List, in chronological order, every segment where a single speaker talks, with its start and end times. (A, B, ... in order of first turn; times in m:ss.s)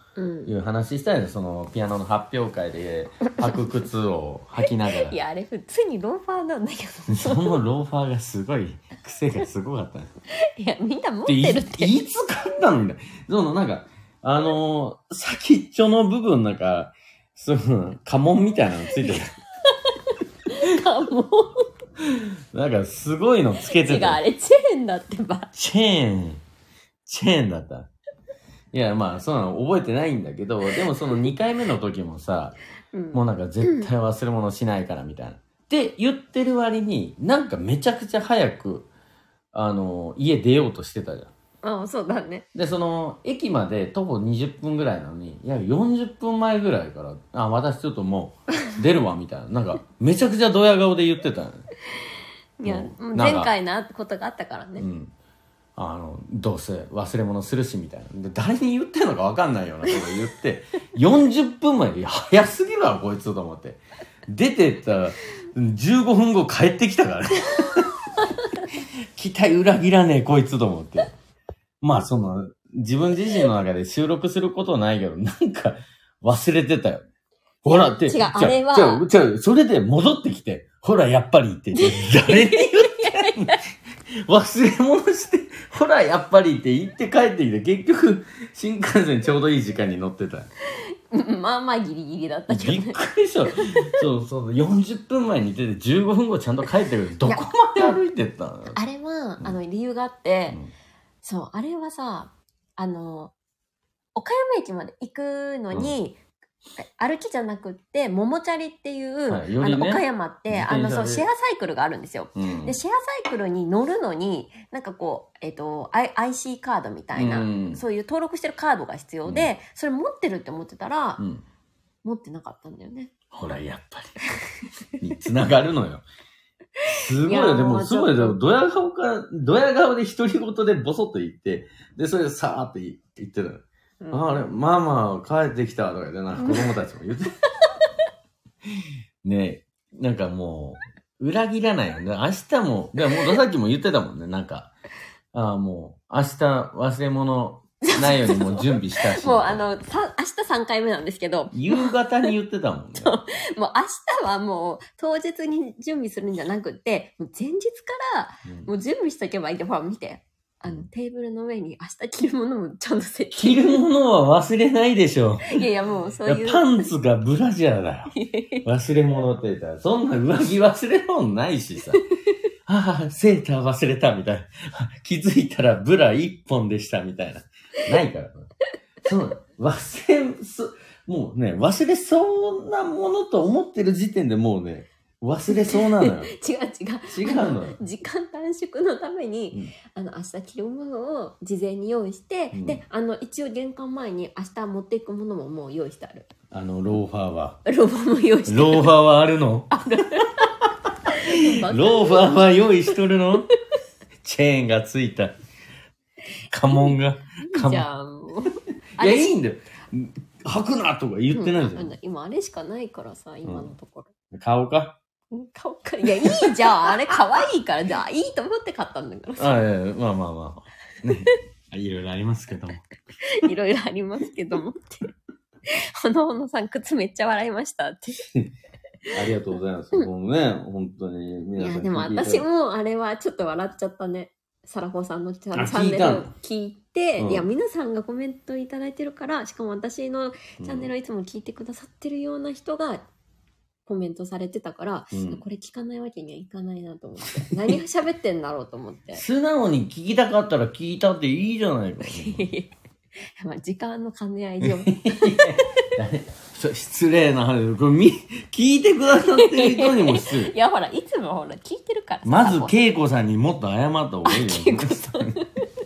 0:00.2-0:00.5 A
0:00.4-0:05.2 B
0:04.9-0:07.6 A
0:07.1-0:10.1 B
0:10.4-0:12.0 A
0:11.2-0:19.3 B
0:20.5-0:21.7 A
0:22.0-0:24.2 B
0:23.6-0:25.5 A
0:25.6-0:26.4 B
0:27.0-0:27.9 B
0:28.7-0:32.6 B
0:32.9-0:33.9 A
0:33.1-0:38.9 B
0:39.5-0:41.3 B
0:41.6-0:42.4 A
0:42.5-0:51.6 B
0:52.6-0:54.9 A
0:52.6-0:53.5 B
0:54.8-0:55.1 B
0:55.8-1:07.9 B
1:09.1-1:11.1 B
1:11.8-1:17.0 B
1:17.6-1:23.6 B
1:17.7-1:19.0 A
1:21.7-1:23.6 A
1:24.2-1:30.5 B
1:31.1-1:33.0 A
1:32.5-1:38.8 B
1:33.5-1:33.9 A
1:37.2-1:38.0 A
1:38.7-1:40.6 A
1:41.2-1:43.3 A
1:44.1-1:46.2 A
1:46.8-2:01.2 A
1:49.3-1:51.2 B
1:52.3-1:52.8 B
1:57.1-1:57.8 B
1:59.2-1:59.5 B
2:02.0-2:03.1 A
2:03.3-2:04.2 B
2:05.0-2:06.0 B
2:06.9-2:17.3 B
2:07.0-2:08.4 A
2:14.0-2:14.4 A
2:16.4-2:16.7 A
2:18.8-2:24.7 B
2:25.3-2:29.6 B
2:27.8-2:32.3 A
2:31.5-2:33.2 B
2:33.0-2:43.8 A
2:43.4-2:45.6 B
2:45.5-2:46.9 A
2:46.2-2:52.0 B
2:48.1-2:48.6 A
2:52.7-2:58.5 B
2:59.0-3:06.3 B
3:05.5-3:16.3 A
3:07.1-3:07.8 B
3:12.5-3:12.8 B
3:16.5-3:17.6 B
3:17.6-3:18.9 A
3:18.5-3:23.5 B
3:19.7-3:20.5 A
3:21.1-3:22.3 A
3:24.2-3:25.3 B
3:26.5-3:27.9 B
3:26.7-3:29.3 A
3:29.0-3:31.9 B
3:31.3-3:34.1 A
3:33.4-3:33.7 B
3:34.3-3:35.0 B
3:35.3-3:39.6 A
3:36.1-3:37.0 B
3:39.4-3:42.8 B
3:43.2-3:45.1 A
3:45.7-3:48.2 A
3:49.1-3:52.4 B
3:51.6-4:03.1 A
3:55.5-3:56.3 B
3:57.2-3:57.5 B
4:00.6-4:00.9 B
4:03.8-4:09.2 A
4:05.1-4:05.4 B
4:07.4-4:07.7 B
4:09.1-4:12.5 B
4:12.0-4:12.7 A
4:13.4-4:15.7 A
4:14.6-4:20.5 B
4:19.3-4:22.8 A
4:22.2-4:25.4 B
4:24.2-4:25.6 A